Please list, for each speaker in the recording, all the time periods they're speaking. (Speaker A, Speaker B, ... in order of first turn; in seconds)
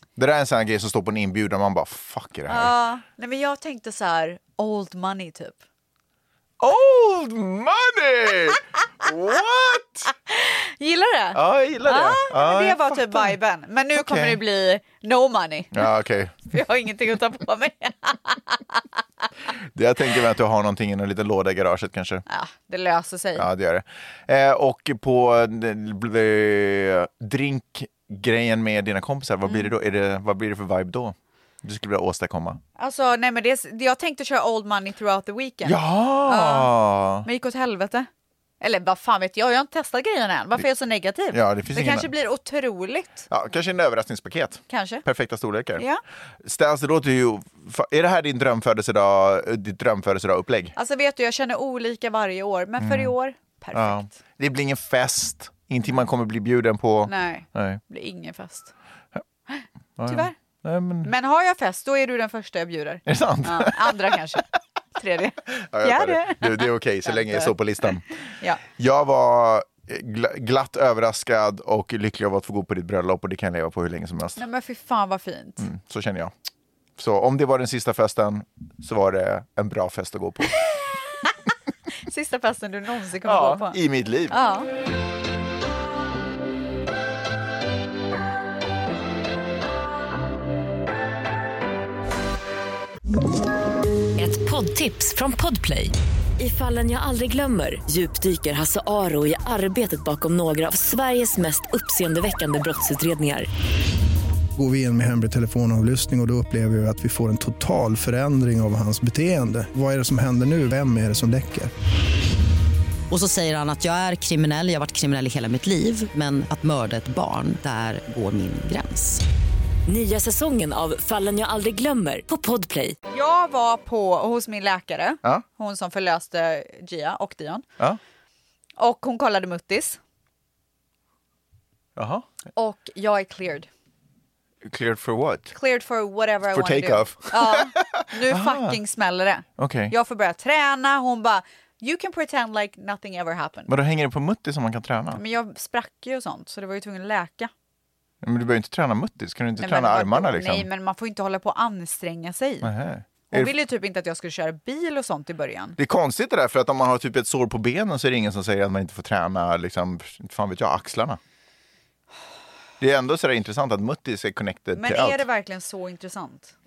Speaker A: 0.2-2.7, 6.6-10.1, 11.3-13.3, 13.9-14.4, 15.7-16.5, 19.7-22.2, 23.4-32.6, 35.6-37.3, 41.3-42.1, 43.3-45.8, 46.4-50.7, 52.8-53.1, 53.7-57.8, 60.0-61.1, 63.0-64.4, 65.5-68.1, 68.7-74.4, 75.6-76.3, 77.0-80.6, 83.2-84.3, 131.9-132.2, 134.6-135.5, 136.5-138.8, 139.6-139.9, 143.7-145.2, 148.2-150.7, 152.6-153.5, 155.8-161.2, 162.8-165.2
Speaker B: 2.5-5.6, 10.3-15.9, 16.5-18.8, 22.3-23.5, 32.8-36.7, 37.2-38.1, 38.6-43.3, 44.7-45.0, 50.8-54.1, 57.0-58.7, 59.5-60.4, 61.0-68.6, 74.3-75.7, 80.6-81.3, 81.9-84.7, 123.1-127.6, 128.8-130.0, 132.5-133.7, 135.5-143.7, 145.1-147.5, 149.6-152.7, 153.3-155.8, 164.8-166.5
Speaker C: 94.2-103.5, 119.9-123.0
Speaker D: 104.5-111.7
Speaker E: 113.1-119.2